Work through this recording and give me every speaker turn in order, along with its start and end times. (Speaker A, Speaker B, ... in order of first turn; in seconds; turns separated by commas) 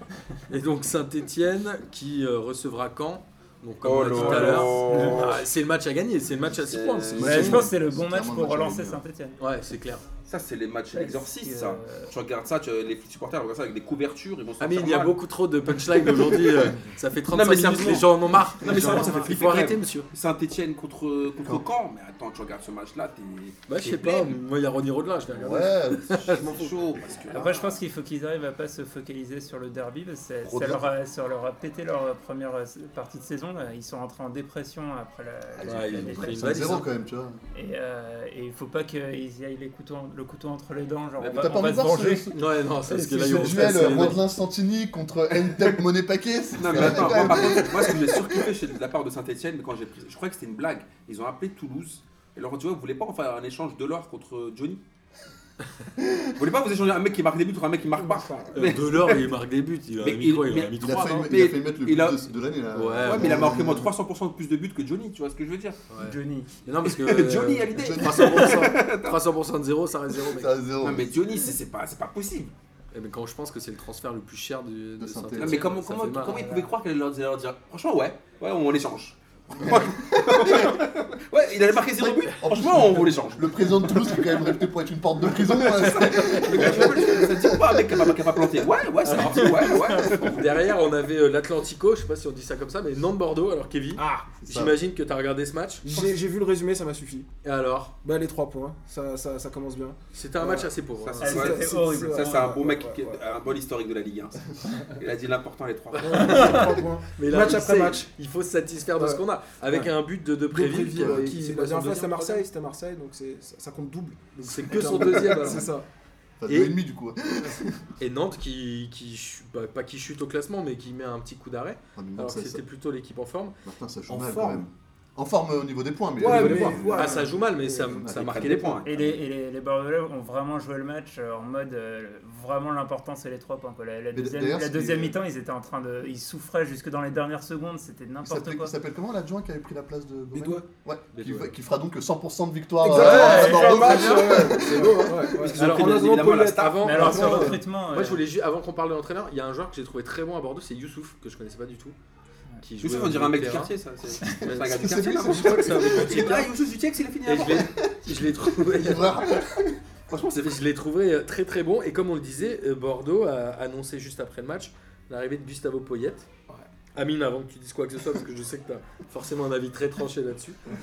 Speaker A: 0.5-7.7, Speaker B: 3.8-5.4, Speaker C: 4.1-5.4, Speaker B: 6.6-7.5, Speaker D: 7.1-9.0, Speaker C: 7.2-9.3, Speaker A: 9.4-10.0, Speaker B: 10.3-15.2, Speaker C: 10.9-12.1, Speaker A: 14.6-20.1, Speaker B: 15.7-16.8, Speaker B: 17.3-24.3, Speaker C: 18.6-19.5, Speaker A: 23.7-26.7, Speaker D: 25.3-26.4, Speaker B: 26.2-27.8, Speaker C: 27.3-36.6, Speaker D: 30.4-30.9, Speaker D: 35.5-37.4, Speaker A: 35.6-36.9, Speaker C: 37.5-44.1, Speaker D: 41.2-42.4, Speaker A: 42.3-44.2, Speaker D: 43.1-48.5, Speaker B: 46.5-54.8, Speaker A: 46.6-47.5, Speaker D: 56.0-56.3, Speaker B: 56.4-59.3, Speaker E: 58.0-58.6, Speaker A: 58.5-61.3, Speaker B: 60.0-62.2, Speaker D: 60.8-63.9, Speaker A: 62.7-63.5, Speaker B: 63.0-65.8, Speaker A: 65.9-70.5, Speaker C: 66.0-66.5, Speaker B: 66.8-69.2, Speaker D: 67.7-68.7, Speaker D: 70.3-71.2, Speaker B: 70.8-72.5, Speaker A: 72.9-76.4, Speaker D: 75.0-75.7, Speaker B: 75.4-84.4, Speaker C: 76.2-76.7, Speaker D: 79.5-80.8, Speaker D: 82.0-88.2, Speaker B: 85.3-90.5, Speaker A: 89.0-96.1, Speaker E: 94.0-94.3, Speaker D: 94.3-94.8, Speaker E: 95.8-97.3, Speaker A: 97.4-97.9, Speaker E: 98.0-103.2, Speaker A: 100.1-101.4, Speaker B: 101.0-106.5, Speaker C: 101.2-102.5, Speaker A: 106.0-112.4, Speaker E: 106.0-108.1, Speaker C: 106.4-106.7, Speaker E: 109.0-109.9, Speaker E: 110.5-115.8, Speaker D: 110.9-111.3, Speaker A: 114.4-115.7, Speaker D: 116.4-117.8, Speaker A: 116.5-116.8, Speaker A: 118.0-123.5, Speaker D: 122.0-122.6, Speaker D: 123.6-129.2, Speaker E: 124.1-124.6, Speaker E: 126.2-127.9, Speaker A: 126.2-128.8, Speaker C: 127.0-127.2, Speaker B: 128.1-128.9, Speaker C: 128.8-138.7, Speaker D: 134.1-135.2, Speaker D: 138.2-145.5, Speaker E: 140.3-140.6, Speaker A: 141.1-141.5, Speaker E: 142.8-147.5, Speaker C: 142.9-144.5, Speaker A: 143.0-151.9, Speaker B: 145.4-147.5, Speaker C: 146.8-148.2, Speaker A: 152.6-153.7, Speaker B: 152.8-157.7, Speaker D: 154.3-156.3, Speaker A: 154.5-156.5, Speaker A: 157.2-159.3, Speaker D: 157.4-159.8, Speaker B: 160.1-160.6, Speaker A: 160.4-166.3, Speaker A: 166.9-170.6